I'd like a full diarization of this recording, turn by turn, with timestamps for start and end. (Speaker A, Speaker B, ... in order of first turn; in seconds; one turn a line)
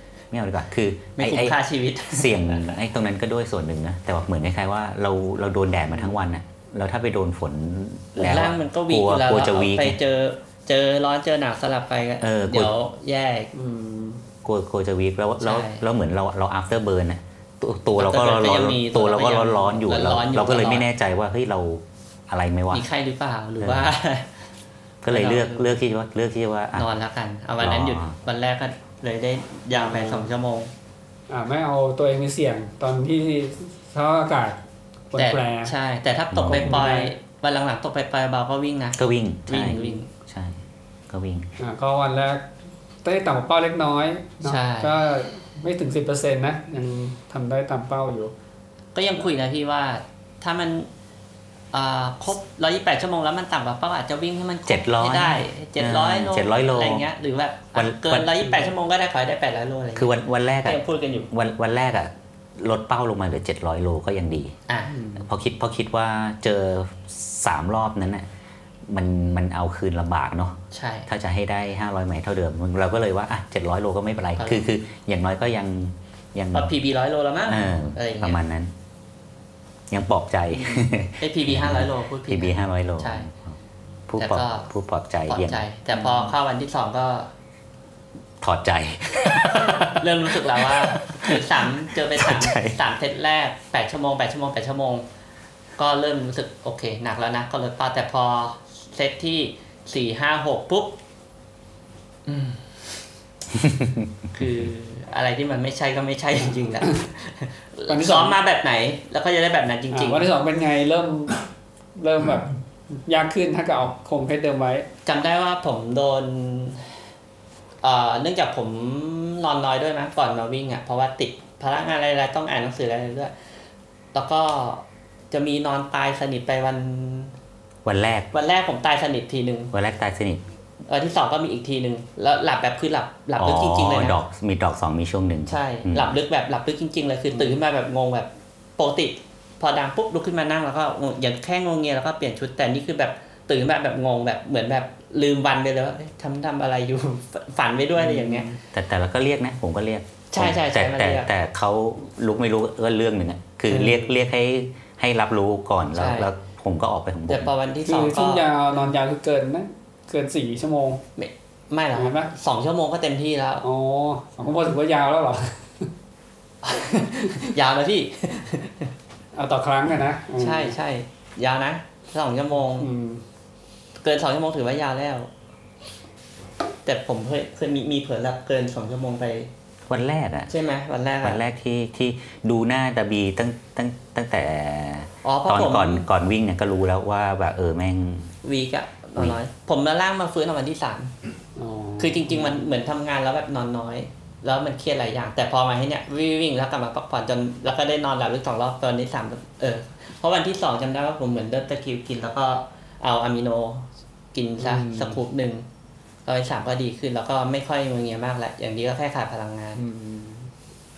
Speaker A: 0.3-1.6
Speaker B: 1.2-2.7
Speaker A: 2.1-10.0
Speaker B: 8.2-13.5
Speaker A: 12.2-12.7
Speaker C: 13.5-14.2
Speaker A: 14.4-22.8
Speaker B: 15.4-15.8
Speaker B: 17.9-20.9
Speaker B: 22.7-24.3
Speaker A: 23.6-23.9
Speaker A: 25.0-26.9
Speaker B: 25.1-25.8
Speaker B: 26.7-30.7
Speaker A: 27.6-28.1
Speaker C: 29.7-30.3
Speaker C: 31.3-34.6
Speaker C: 35.1-35.7
Speaker B: 35.1-40.1
Speaker A: 36.3-36.8
Speaker C: 36.5-37.1
Speaker A: 39.0-41.5
Speaker C: 39.7-40.0
Speaker C: 41.6-42.5
Speaker C: 43.0-48.3
Speaker B: 44.4-45.0
Speaker B: 48.9-50.9
Speaker B: 51.7-61.3
Speaker A: 54.6-57.0
Speaker A: 57.7-58.4
Speaker A: 60.0-64.5
Speaker B: 64.7-64.9
Speaker C: 64.8-65.2
Speaker A: 65.2-68.2
Speaker A: 68.9-76.7
Speaker B: 70.7-71.1
Speaker B: 74.4-74.7
Speaker B: 76.5-78.4
Speaker A: 77.5-78.7
Speaker A: 79.9-83.6
Speaker B: 80.5-83.3
Speaker A: 84.1-86.2
Speaker B: 84.2-84.7
Speaker B: 85.3-87.3
Speaker A: 88.4-92.8
Speaker B: 89.8-95.0
Speaker B: 95.8-101.0
Speaker B: 102.2-102.7
Speaker A: 103.5-104.1
Speaker B: 104.3-110.3
Speaker C: 106.4-107.0
Speaker C: 107.9-108.3
Speaker C: 109.9-111.4
Speaker C: 112.0-114.9
Speaker B: 115.0-116.9
Speaker B: 117.8-123.3
Speaker B: 124.1-127.3
Speaker A: 127.8-128.3
Speaker B: 128.3-129.7
Speaker A: 129.7-130.4
Speaker B: 130.9-134.2
Speaker A: 133.4-136.2
Speaker B: 135.5-148.5
Speaker C: 137.3-137.6
Speaker C: 148.0-148.6
Speaker A: 148.7-157.5
Speaker B: 150.3-151.3
Speaker B: 153.7-154.2
Speaker B: 155.9-156.3
Speaker B: 157.3-158.5
Speaker C: 157.8-161.0
Speaker B: 161.2-163.6
Speaker C: 161.9-162.3
Speaker C: 163.6-165.9
Speaker B: 166.6-168.9
Speaker C: 169.3-170.8
Speaker B: 170.4-172.9
Speaker C: 172.8-173.2
Speaker B: 174.0-175.3
Speaker B: 176.8-179.5
Speaker A: 179.9-180.5
Speaker B: 180.5-181.4
Speaker A: 181.2-188.3
Speaker B: 185.2-186.1
Speaker B: 188.4-191.1
Speaker C: 191.6-192.7
Speaker B: 192.0-205.7
Speaker C: 204.6-205.2
Speaker B: 206.2-209.8
Speaker C: 209.8-210.5